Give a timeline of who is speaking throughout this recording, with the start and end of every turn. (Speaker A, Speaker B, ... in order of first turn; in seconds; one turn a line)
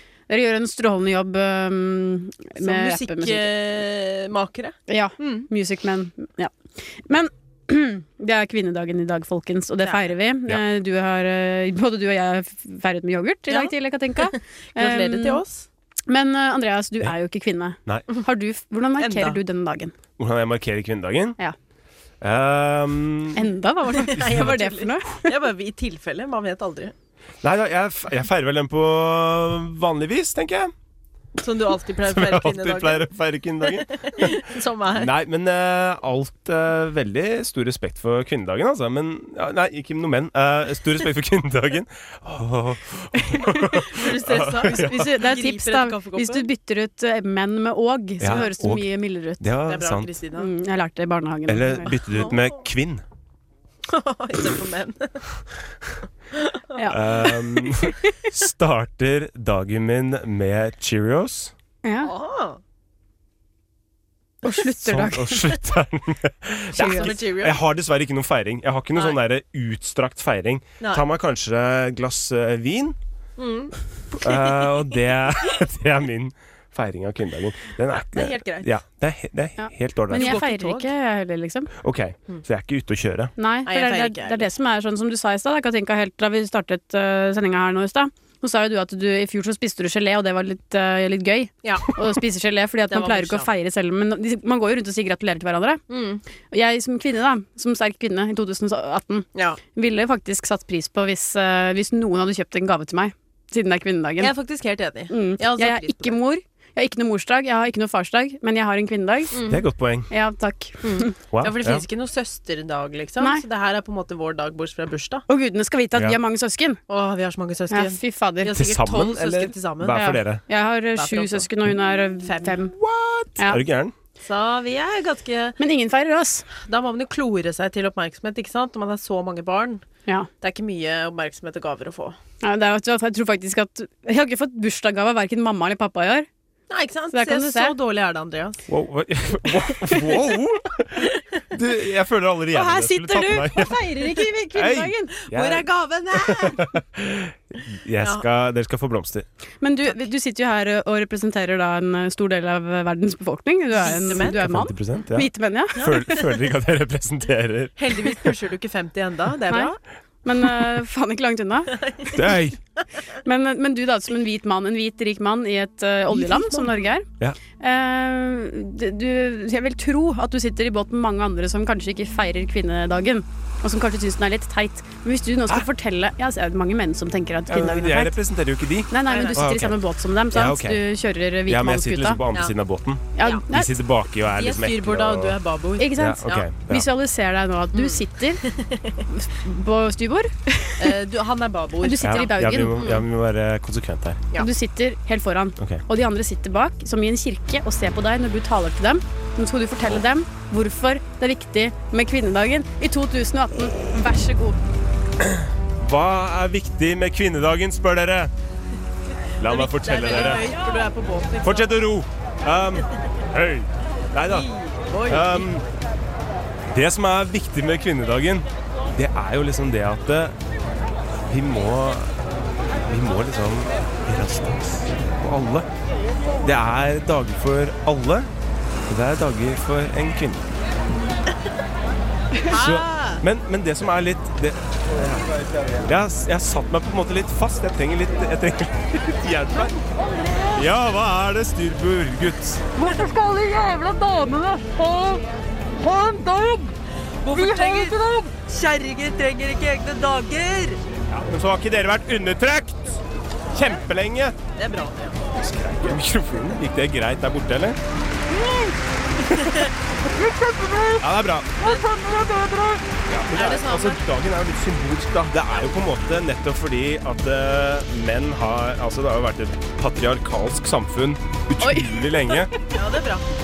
Speaker A: 0.3-3.5
Speaker B: 2.6-5.5
Speaker A: 4.9-15.4
Speaker B: 9.8-10.1
Speaker B: 13.5-15.7
Speaker A: 16.1-19.9
Speaker B: 19.0-19.4
Speaker C: 20.2-21.4
Speaker C: 22.2-23.4
Speaker A: 23.4-25.3
Speaker B: 23.9-26.9
Speaker C: 27.4-30.7
Speaker B: 31.4-33.1
Speaker C: 32.1-34.4
Speaker B: 33.6-35.1
Speaker C: 34.9-45.1
Speaker A: 43.3-43.6
Speaker B: 43.7-46.5
Speaker A: 44.6-49.4
Speaker C: 48.2-50.1
Speaker B: 49.7-50.5
Speaker A: 50.4-51.9
Speaker C: 51.5-53.0
Speaker B: 53.9-55.3
Speaker B: 56.3-56.9
Speaker A: 56.8-57.3
Speaker C: 56.9-61.5
Speaker A: 61.9-62.1
Speaker B: 62.0-62.6
Speaker A: 64.4-65.5
Speaker C: 64.8-73.0
Speaker A: 66.8-67.2
Speaker B: 66.8-67.6
Speaker B: 70.8-71.0
Speaker B: 73.4-74.8
Speaker C: 74.2-80.4
Speaker B: 78.0-78.7
Speaker A: 79.6-81.7
Speaker B: 80.1-80.9
Speaker C: 81.8-83.3
Speaker A: 83.4-95.8
Speaker B: 83.7-84.5
Speaker B: 91.6-91.9
Speaker B: 92.9-93.5
Speaker B: 95.9-96.2
Speaker A: 96.5-104.3
Speaker B: 99.3-99.6
Speaker B: 104.2-106.2
Speaker A: 105.1-109.4
Speaker B: 109.3-109.6
Speaker C: 109.5-110.1
Speaker A: 110.1-111.1
Speaker B: 110.8-115.2
Speaker C: 111.3-111.8
Speaker A: 115.3-116.8
Speaker B: 116.9-120.1
Speaker A: 117.7-118.5
Speaker C: 118.5-120.4
Speaker A: 119.9-122.7
Speaker B: 121.0-121.5
Speaker B: 122.2-122.8
Speaker C: 122.8-124.0
Speaker B: 124.2-125.6
Speaker A: 125.6-126.5
Speaker B: 126.6-129.8
Speaker B: 130.4-132.2
Speaker A: 132.4-136.3
Speaker B: 136.7-138.6
Speaker A: 137.1-137.7
Speaker C: 138.7-143.8
Speaker A: 142.5-145.1
Speaker B: 143.7-144.4
Speaker C: 144.5-149.3
Speaker B: 145.2-146.7
Speaker A: 149.6-156.2
Speaker B: 153.8-154.4
Speaker C: 154.1-158.3
Speaker B: 155.8-156.3
Speaker B: 157.8-159.8
Speaker A: 160.2-161.8
Speaker B: 161.7-162.2
Speaker C: 162.1-162.6
Speaker A: 163.2-167.1
Speaker B: 166.1-166.9
Speaker A: 167.6-178.2
Speaker C: 177.5-179.8
Speaker A: 178.9-182.2
Speaker B: 179.1-179.4
Speaker C: 180.3-180.8
Speaker C: 181.5-185.4
Speaker A: 183.2-183.7
Speaker B: 183.2-183.5
Speaker B: 184.3-186.4
Speaker A: 185.8-188.4
Speaker C: 185.9-186.9
Speaker B: 187.7-189.0
Speaker A: 189.1-190.9
Speaker B: 190.8-193.0
Speaker A: 191.8-192.9
Speaker C: 192.0-194.2
Speaker A: 194.4-204.6
Speaker C: 195.6-195.8
Speaker C: 205.2-208.3
Speaker C: 209.4-210.5
Speaker B: 209.4-211.8
Speaker C: 211.4-214.5
Speaker B: 214.3-215.5
Speaker C: 215.1-215.7
Speaker C: 216.7-220.4
Speaker C: 221.3-222.2
Speaker C: 222.8-225.7
Speaker C: 226.4-228.3
Speaker C: 228.9-230.5
Speaker B: 232.4-233.2
Speaker C: 232.5-239.8
Speaker C: 240.6-242.7
Speaker D: 242.8-245.2
Speaker D: 245.8-246.7
Speaker B: 247.2-250.8
Speaker D: 247.3-248.3
Speaker C: 251.1-253.0
Speaker C: 253.5-254.4
Speaker B: 254.6-255.2
Speaker C: 255.4-257.8
Speaker C: 259.3-259.6
Speaker B: 259.3-259.7
Speaker D: 260.1-261.0
Speaker C: 261.0-261.6
Speaker D: 261.6-262.8
Speaker C: 263.1-272.5
Speaker B: 263.3-264.0
Speaker A: 271.6-272.3
Speaker B: 272.7-273.3